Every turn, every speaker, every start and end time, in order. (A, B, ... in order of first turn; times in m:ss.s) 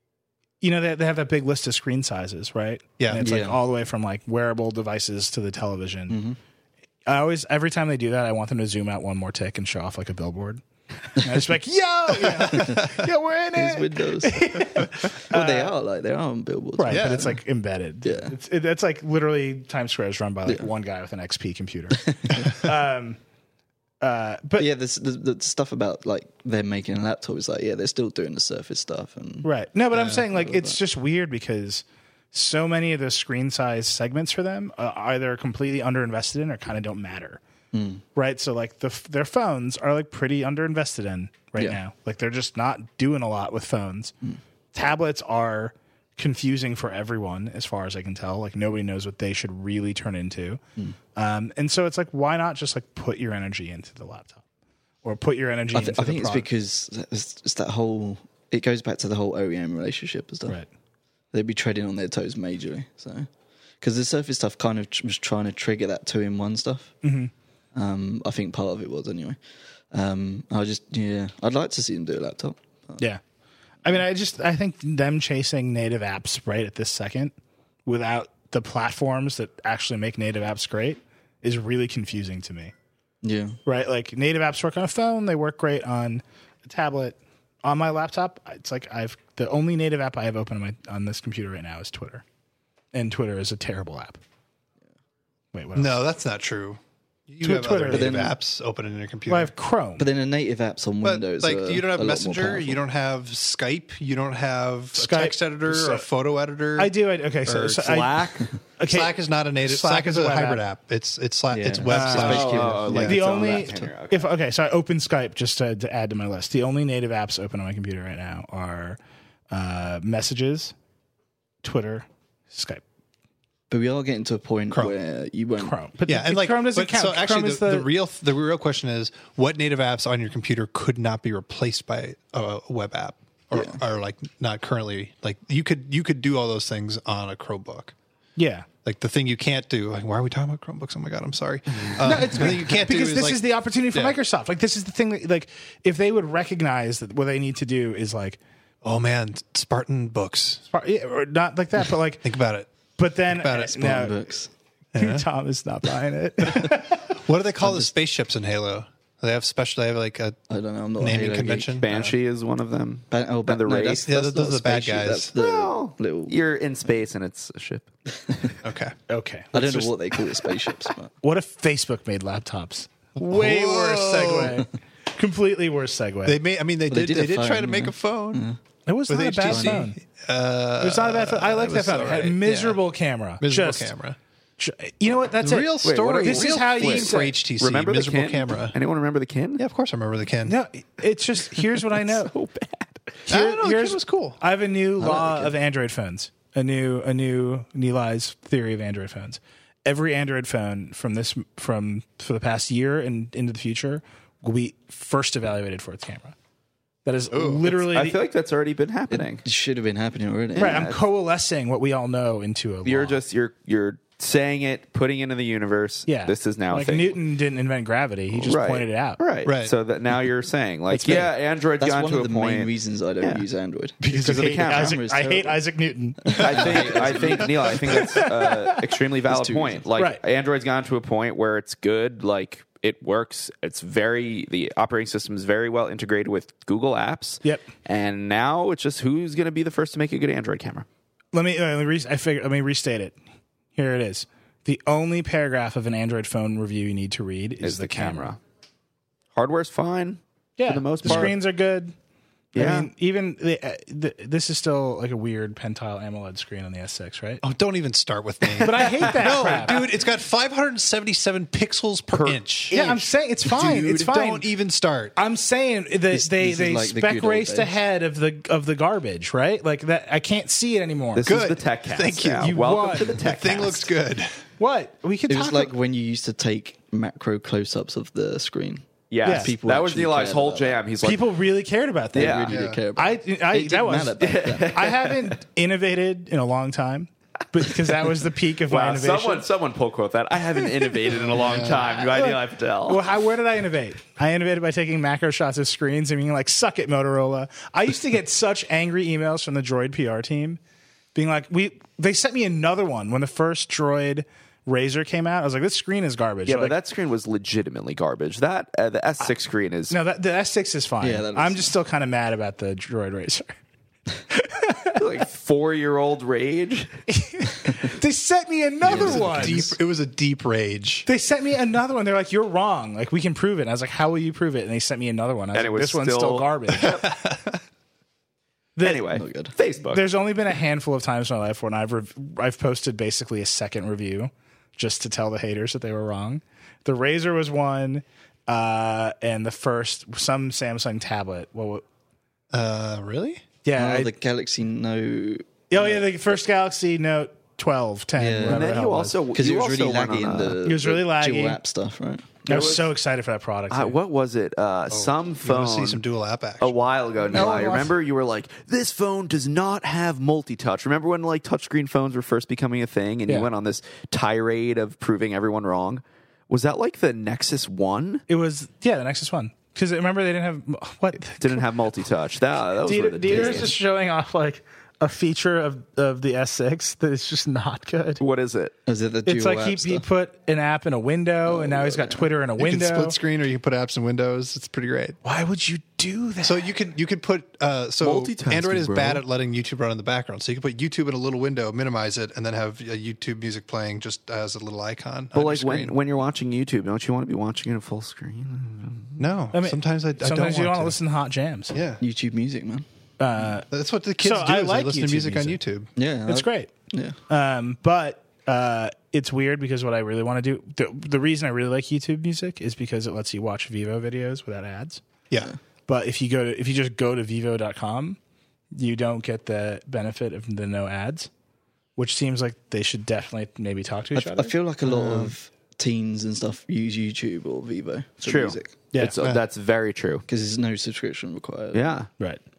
0:00.6-0:06.2 A
0:03.2-0:03.6 B
0:06.1-0:06.4 B
0:07.0-0:15.7 A
0:12.2-0:12.9 C
0:12.4-0:12.8 B
0:13.6-0:17.4 B
0:16.8-0:23.2 A
0:16.9-0:17.3 C
0:18.0-0:18.3 B
0:22.0-0:22.7 B
0:24.0-0:24.7 A
0:24.6-0:30.8 B
0:29.4-0:37.4 A
0:37.7-0:38.0 B
0:38.1-0:44.1 A
0:44.7-0:50.6 A
0:51.2-0:54.4 A
0:55.0-0:56.5 A
0:55.7-1:00.6 B
1:01.3-1:03.3 B
1:03.8-1:07.0 B
1:07.0-1:07.3 A
1:07.7-1:09.4 B
1:09.9-1:13.0 B
1:13.8-1:17.3 A
1:17.8-1:22.7 A
1:23.2-1:23.6 B
1:23.6-1:32.2 A
1:32.9-1:34.2 A
1:35.5-1:36.0 A
1:35.7-1:39.5 C
1:37.4-1:38.1 A
1:37.9-1:38.4 B
1:39.3-1:40.0 A
1:40.0-1:42.8 B
1:41.0-1:46.9 C
1:45.0-1:46.0 A
1:46.8-1:50.6 A
1:47.4-1:48.1 C
1:47.8-1:48.4 D
1:48.9-1:53.2 C
1:51.5-1:53.8 B
1:51.9-1:59.0 A
1:52.0-1:54.3 D
1:59.5-2:00.7 A
2:01.6-2:02.8 A
2:03.7-2:05.8 B
2:05.6-2:07.9 A
2:06.0-2:17.9 C
2:13.5-2:13.8 B
2:18.4-2:18.7 A
2:18.8-2:24.2 C
2:22.0-2:28.4 A
2:28.8-2:30.6 C
2:30.7-2:32.2 A
2:32.2-2:32.7 C
2:32.9-2:34.1 A
2:33.3-2:34.0 C
2:33.8-2:34.5 B
2:34.9-2:35.2 C
2:35.0-2:37.1 A
2:36.4-2:40.4 C
2:37.6-2:37.9 B
2:40.5-2:41.8 B
2:41.0-2:42.1 C
2:41.8-2:44.1 D
2:43.1-2:46.3 B
2:44.0-2:45.3 C
2:45.4-2:47.9 D
2:48.2-2:48.5 B
2:48.6-2:48.9 C
2:49.1-2:50.0 A
2:49.5-2:51.1 B
2:51.2-2:56.4 A
2:53.2-2:54.7 C
2:56.2-2:58.4 C
2:56.9-2:58.6 B
2:58.8-3:00.0 A
2:59.1-3:02.8 C
2:59.5-2:59.8 B
3:00.8-3:03.9 A
3:03.4-3:04.2 C
3:04.6-3:07.3 A
3:05.4-3:08.8 C
3:05.8-3:09.6 D
3:09.6-3:10.5 C
3:10.4-3:12.3 A
3:11.8-3:13.2 D
3:13.2-3:26.4 A
3:13.3-3:14.4 C
3:15.0-3:15.5 B
3:27.0-3:28.2 A
3:27.3-3:27.7 C
3:27.6-3:29.4 D
3:29.1-3:30.9 B
3:30.5-3:31.0 D
3:30.6-3:33.2 A
3:32.8-3:37.2 D
3:36.1-3:39.2 A
3:38.3-3:43.4 D
3:39.4-3:39.7 C
3:40.9-3:41.3 A
3:41.0-3:45.6 B
3:44.0-3:45.0 D
3:44.1-3:48.8 A
3:46.2-3:48.2 B
3:46.4-4:00.8 D
3:49.2-3:49.8 B
3:50.0-3:50.2 A
4:01.3-4:03.2 A
4:03.7-4:08.3 A
4:07.6-4:08.4 D
4:09.3-4:11.4 D
4:10.6-4:11.9 A
4:11.0-4:11.3 C
4:12.5-4:12.9 D
4:12.5-4:17.4 A
4:17.4-4:22.8 C
4:18.5-4:19.9 D
4:18.6-4:19.8 A
4:22.1-4:22.9 D
4:22.7-4:24.5 A
4:23.4-4:25.2 C
4:25.2-4:31.4 A
4:26.1-4:27.7 B
4:31.2-4:33.9 D
4:31.2-4:34.4 C
4:32.4-4:33.2 A
4:34.6-4:35.7 A
4:35.3-4:40.8 B
4:39.1-4:41.3 D
4:39.2-4:39.5 A
4:41.0-4:49.4 A
4:42.1-4:44.8 B
4:42.1-4:42.6 D
4:42.5-4:42.8 C
4:44.2-4:45.4 D
4:48.7-4:53.0 D
4:51.1-5:00.6 A
4:51.1-4:52.0 C
5:01.1-5:06.8 A
5:06.5-5:09.9 D
5:09.9-5:13.5 A
5:11.0-5:11.7 B
5:14.3-5:15.0 A
5:15.0-5:16.9 D
5:17.1-5:19.7 A
5:18.8-5:21.1 C
5:18.8-5:19.7 B
5:21.0-5:27.0 A
5:25.5-5:27.0 D
5:26.7-5:27.6 C
5:28.8-5:29.0 A
5:28.8-5:30.0 D
5:29.1-5:29.5 B
5:29.9-5:41.8 A
5:42.5-5:43.4 C
5:43.6-5:44.1 A
5:43.7-5:46.1 B
5:45.7-5:49.2 A
5:48.2-5:48.7 B
5:48.4-5:50.6 D
5:49.3-5:52.4 B
5:50.6-5:51.6 A
5:52.4-5:54.0 A
5:52.5-5:52.9 D
5:53.7-5:56.0 D
5:54.9-5:56.7 C
5:56.6-6:08.2 D
5:57.3-5:57.9 A
6:08.3-6:11.7 A
6:11.4-6:13.7 D
6:12.8-6:18.2 A
6:13.3-6:13.7 B
6:18.2-6:18.7 D
6:18.8-6:20.0 B
6:19.2-6:23.2 A
6:21.4-6:22.3 B
6:22.6-6:25.2 C
6:25.2-6:26.7 A
6:26.4-6:36.0 C
6:28.0-6:29.2 D
6:35.3-6:39.2 D
6:39.2-6:41.0 C
6:39.5-6:41.7 A
6:41.7-6:42.0 C
6:42.0-6:42.8 B
6:43.2-6:43.7 A
6:43.7-6:45.9 C
6:44.2-6:45.6 A
6:46.0-6:47.2 B
6:46.3-6:46.7 A
6:47.3-6:55.0 A
6:55.9-6:58.2 A
6:58.7-7:01.3 A
7:02.0-7:05.3 A
7:04.1-7:08.7 B
7:08.2-7:10.2 D
7:10.3-7:11.9 B
7:11.7-7:12.1 D